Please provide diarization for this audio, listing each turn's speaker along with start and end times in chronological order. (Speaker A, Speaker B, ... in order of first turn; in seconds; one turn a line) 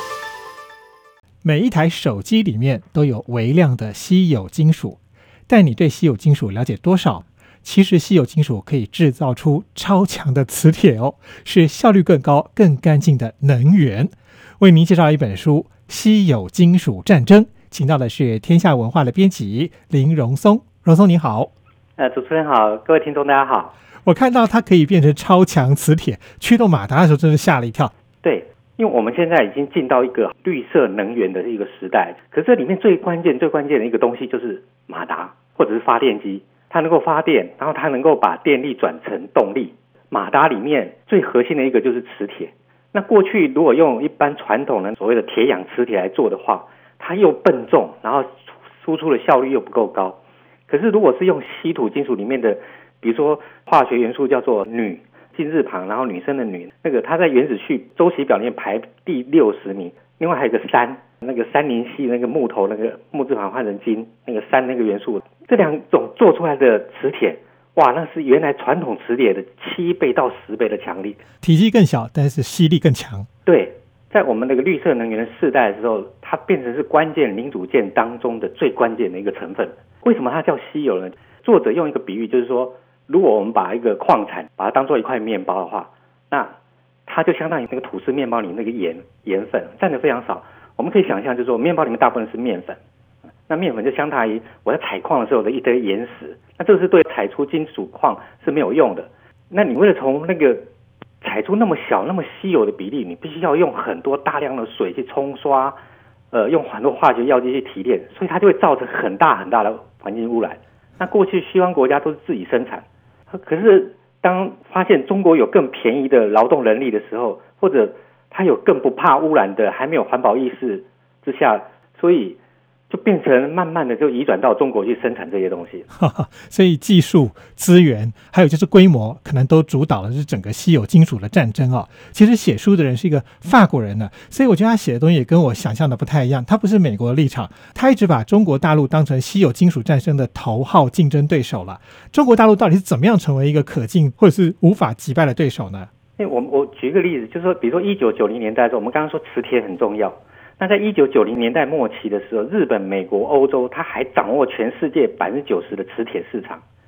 Speaker A: 1.4-5.0
Speaker A: 5.5-21.5
Speaker B: 22.0-23.7
Speaker A: 24.1-27.9
Speaker B: 28.2-71.2
Speaker A: 71.4-73.3
Speaker B: 73.5-86.5
Speaker B: 87.1-92.8
Speaker B: 93.5-100.6
Speaker B: 101.2-105.8
Speaker B: 106.3-122.4
Speaker B: 122.9-125.8
Speaker A: 125.9-145.9
Speaker B: 146.2-156.6